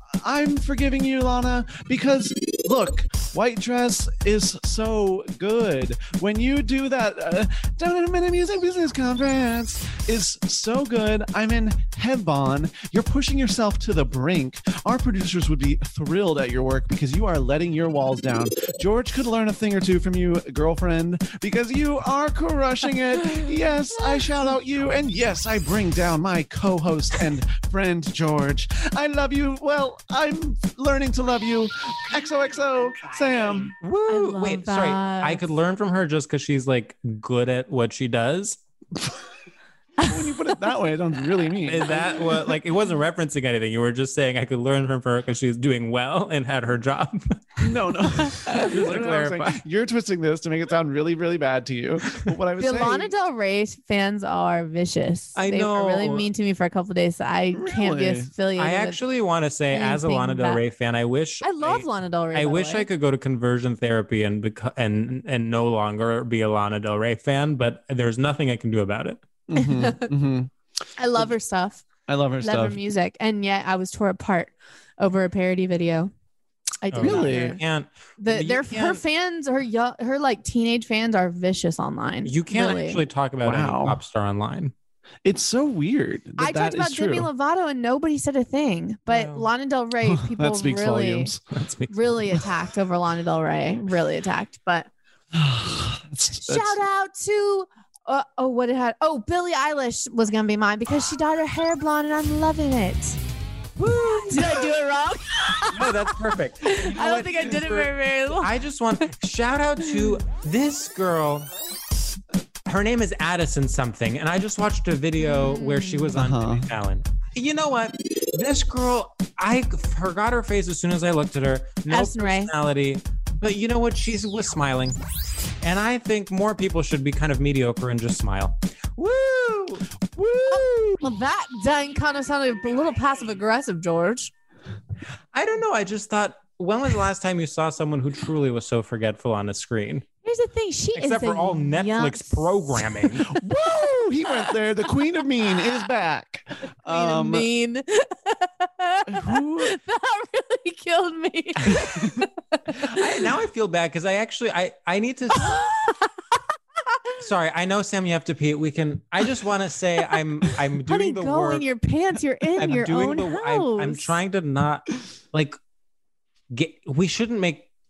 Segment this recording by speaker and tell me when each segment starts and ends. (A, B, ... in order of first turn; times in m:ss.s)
0:00.2-0:33.7 A
0:33.8-0:38.6 B
0:34.1-0:35.4 C
0:40.0-0:42.5 A
0:41.6-0:47.4 B
0:47.6-0:53.1 A
0:48.5-0:49.6 B
0:52.6-0:59.0 C
0:55.4-0:56.3 B
0:57.5-0:58.3 A
0:58.6-1:09.2 B
0:59.7-1:00.6 C
1:01.4-1:02.9 C
1:09.5-1:10.5 A
1:09.6-1:10.1 C
1:11.0-1:11.9 C
1:12.1-1:12.8 A
1:12.4-1:16.1 C
1:16.8-1:17.6 C
1:16.9-1:19.0 B
1:17.0-1:17.6 A
1:18.2-1:23.0 C
1:22.2-1:24.7 B
1:23.4-1:24.0 A
1:25.2-1:27.3 A
1:26.4-1:31.3 C
1:29.1-1:29.5 B
1:30.0-1:31.4 A
1:31.5-1:31.9 B
1:31.9-1:34.9 C
1:35.3-1:36.8 A
1:36.4-1:43.2 C
1:43.8-1:44.6 B
1:44.0-1:46.0 C
1:45.7-1:51.5 B
1:46.6-1:48.5 C
1:52.6-2:05.0 B
1:55.2-1:56.2 C
1:56.1-1:56.7 A
2:01.9-2:02.5 C
2:05.6-2:11.1 B
2:10.5-2:14.3 C
2:15.3-2:20.0 B
2:20.2-2:23.0 C
2:20.9-2:23.2 B
2:23.3-2:27.4 A
2:26.9-2:32.9 C
2:29.1-2:29.7 A
2:31.7-2:32.2 A
2:32.8-2:35.6 B
2:35.4-2:36.1 C
2:37.2-2:41.6 B
2:40.8-2:44.1 C
2:42.6-2:45.6 B
2:46.5-2:47.6 B